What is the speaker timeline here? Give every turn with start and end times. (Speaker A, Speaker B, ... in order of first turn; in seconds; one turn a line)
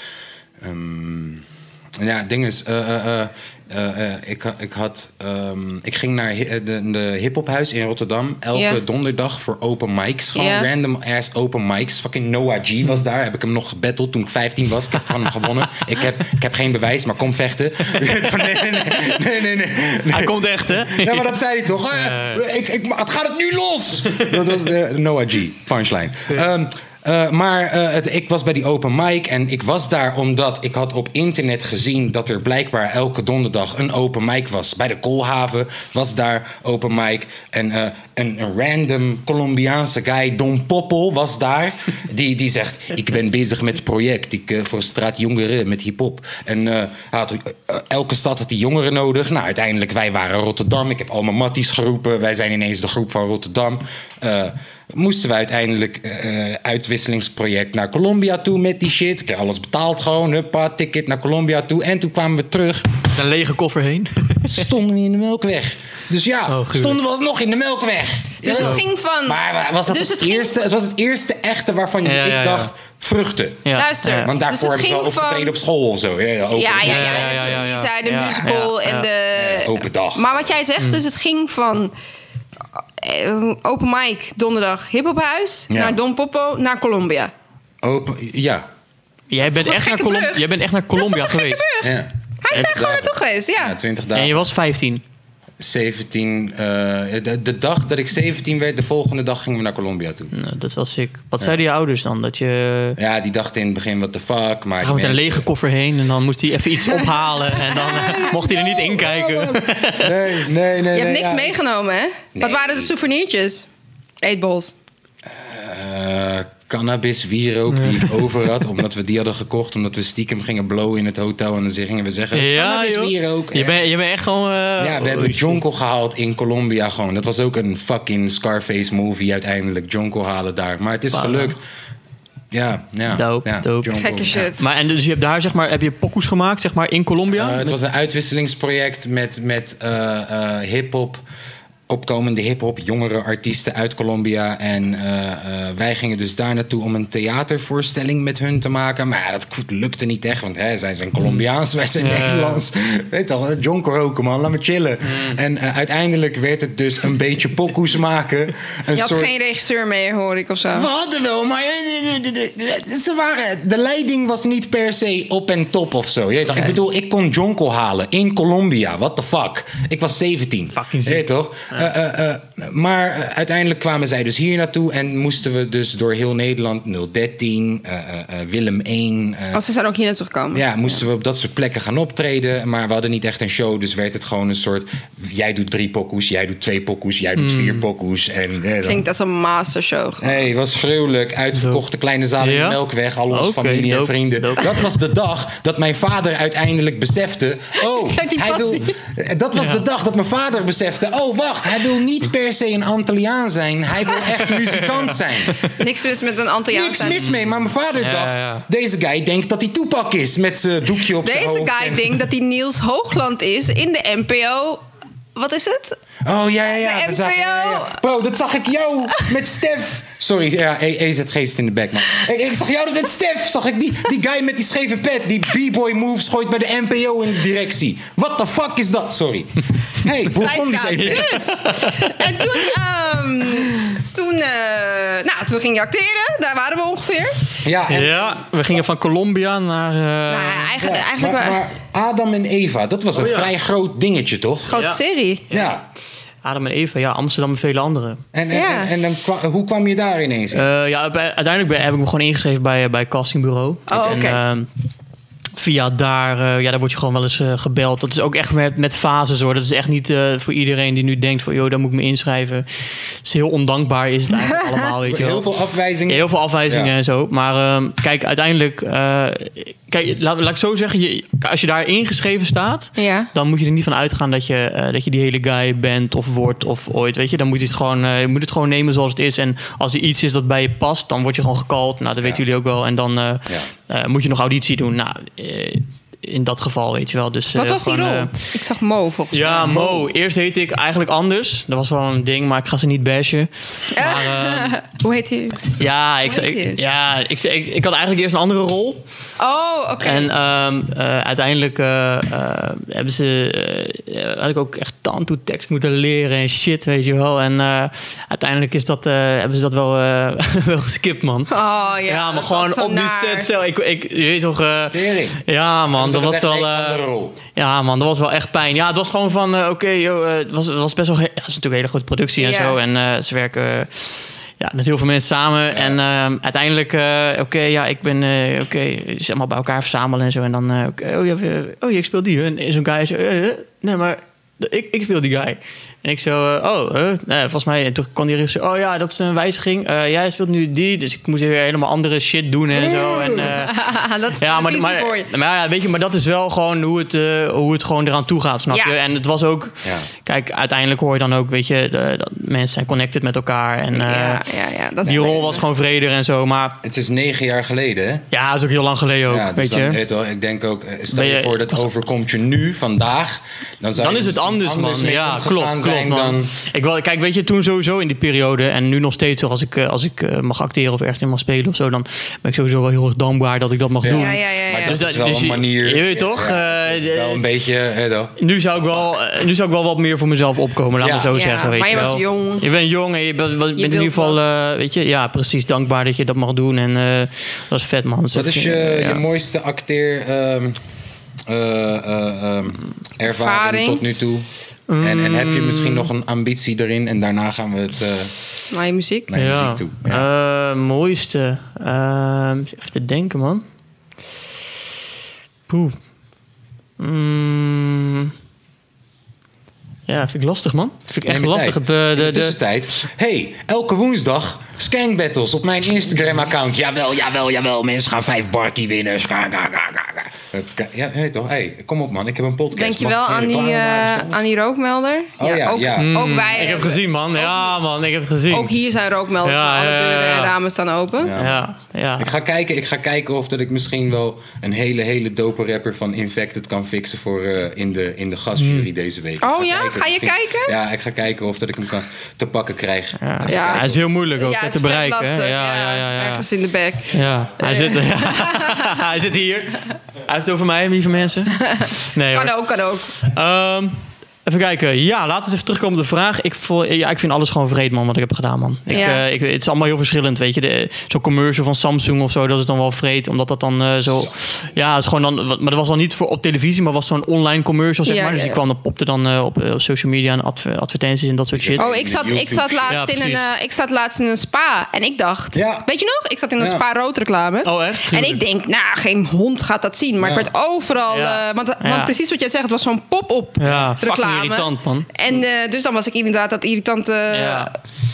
Speaker A: 0.6-1.4
Speaker A: 2.0-62.9
Speaker B: 8.5-8.8
Speaker B: 10.3-10.7
Speaker C: 20.1-21.3
Speaker C: 21.9-22.4
Speaker C: 24.1-24.4
Speaker C: 63.1-64.7
Speaker A: 64.5-73.7
Speaker C: 66.5-67.0
Speaker B: 68.4-70.6
Speaker C: 68.5-68.8
Speaker C: 72.0-72.7
Speaker C: 73.6-74.3
Speaker B: 73.8-75.5
Speaker A: 74.2-77.6
Speaker B: 76.5-81.9
Speaker C: 76.8-79.1
Speaker A: 79.3-80.5
Speaker B: 83.0-87.3
Speaker A: 85.7-86.0
Speaker A: 87.8-88.7
Speaker C: 89.3-91.7
Speaker B: 89.4-93.8
Speaker A: 91.8-94.5
Speaker C: 94.1-95.0
Speaker A: 95.6-100.3
Speaker C: 100.3-103.0
Speaker A: 103.0-105.5
Speaker C: 104.8-110.1
Speaker B: 107.5-108.6
Speaker A: 108.8-111.6
Speaker B: 110.9-113.7
Speaker A: 112.3-112.9
Speaker B: 114.2-114.7
Speaker A: 115.2-123.8
Speaker C: 117.7-118.2
Speaker C: 122.3-125.6
Speaker A: 124.8-131.6
Speaker C: 131.1-131.6
Speaker A: 132.5-134.5
Speaker C: 133.1-137.8
Speaker B: 133.9-134.6
Speaker A: 137.3-141.2
Speaker A: 141.9-159.3
Speaker C: 152.0-152.6
Speaker C: 155.1-155.3
Speaker B: 158.9-160.9
Speaker A: 160.7-179.6
Speaker C: 170.7-171.8
Speaker B: 179.5-181.0
Speaker A: 180.5-189.0
Speaker C: 187.4-187.9
Speaker B: 188.8-190.4
Speaker A: 190.2-205.7
Speaker C: 191.5-191.8
Speaker C: 192.4-192.8
Speaker C: 193.3-194.8
Speaker B: 197.8-198.9
Speaker C: 199.5-199.8
Speaker C: 204.7-205.8
Speaker B: 205.6-207.2
Speaker A: 206.7-212.2
Speaker C: 207.2-208.7
Speaker B: 211.2-214.8
Speaker B: 215.3-216.0
Speaker A: 216.2-231.4
Speaker B: 216.7-218.0
Speaker B: 230.3-237.5
Speaker C: 230.9-232.7
Speaker A: 237.6-238.8
Speaker C: 237.9-240.8
Speaker B: 240.3-241.6
Speaker A: 240.8-244.8
Speaker C: 243.1-243.5
Speaker B: 244.7-245.4
Speaker C: 244.7-245.0
Speaker A: 245.5-245.8
Speaker C: 246.4-248.2
Speaker A: 248.3-250.7
Speaker B: 248.5-248.9
Speaker C: 250.5-254.7
Speaker B: 253.9-254.4
Speaker C: 255.6-265.5
Speaker A: 265.0-266.9
Speaker C: 266.1-288.3
Speaker B: 273.0-273.3
Speaker B: 287.6-289.7
Speaker C: 289.3-294.8
Speaker A: 289.6-290.1
Speaker B: 293.9-296.8
Speaker C: 295.8-299.0
Speaker B: 299.4-300.3
Speaker C: 300.0-317.0
Speaker B: 311.5-313.5
Speaker A: 314.9-315.4
Speaker A: 315.9-317.4
Speaker C: 317.5-354.4
Speaker B: 322.4-322.8
Speaker A: 325.7-326.0
Speaker A: 342.8-343.5
Speaker B: 343.4-345.3
Speaker A: 349.8-350.1
Speaker B: 353.9-355.6
Speaker C: 355.0-356.8
Speaker A: 356.8-358.2
Speaker C: 358.3-360.0
Speaker A: 359.3-366.5
Speaker C: 361.1-361.9
Speaker C: 364.0-377.4
Speaker A: 374.0-379.1
Speaker B: 374.1-375.0
Speaker C: 378.4-389.2
Speaker A: 381.0-381.4
Speaker B: 381.3-382.6
Speaker B: 383.8-384.4
Speaker A: 388.3-390.8
Speaker A: 391.5-394.5
Speaker B: 393.4-394.1
Speaker C: 394.9-396.1
Speaker A: 395.0-398.3
Speaker B: 398.7-399.3
Speaker A: 399.3-400.2
Speaker C: 399.4-403.6
Speaker C: 405.7-406.0
Speaker C: 407.0-408.3
Speaker C: 410.1-412.6
Speaker A: 411.2-424.4
Speaker B: 422.8-427.8
Speaker A: 425.4-426.2
Speaker C: 425.9-428.7
Speaker B: 428.5-431.4
Speaker C: 429.4-430.5
Speaker A: 431.2-444.0
Speaker C: 431.4-432.3
Speaker C: 438.6-438.9
Speaker B: 439.4-440.8
Speaker C: 443.2-446.5
Speaker B: 443.5-449.0
Speaker C: 447.1-452.5
Speaker B: 451.5-453.2
Speaker C: 453.1-471.9
Speaker B: 458.9-459.2
Speaker B: 468.1-468.6
Speaker A: 471.5-473.0
Speaker B: 471.8-487.7
Speaker C: 472.9-473.4
Speaker A: 475.5-475.9
Speaker A: 476.6-476.9
Speaker C: 477.6-478.4
Speaker A: 480.2-480.5
Speaker C: 481.1-482.1
Speaker C: 483.6-485.1
Speaker C: 487.3-487.7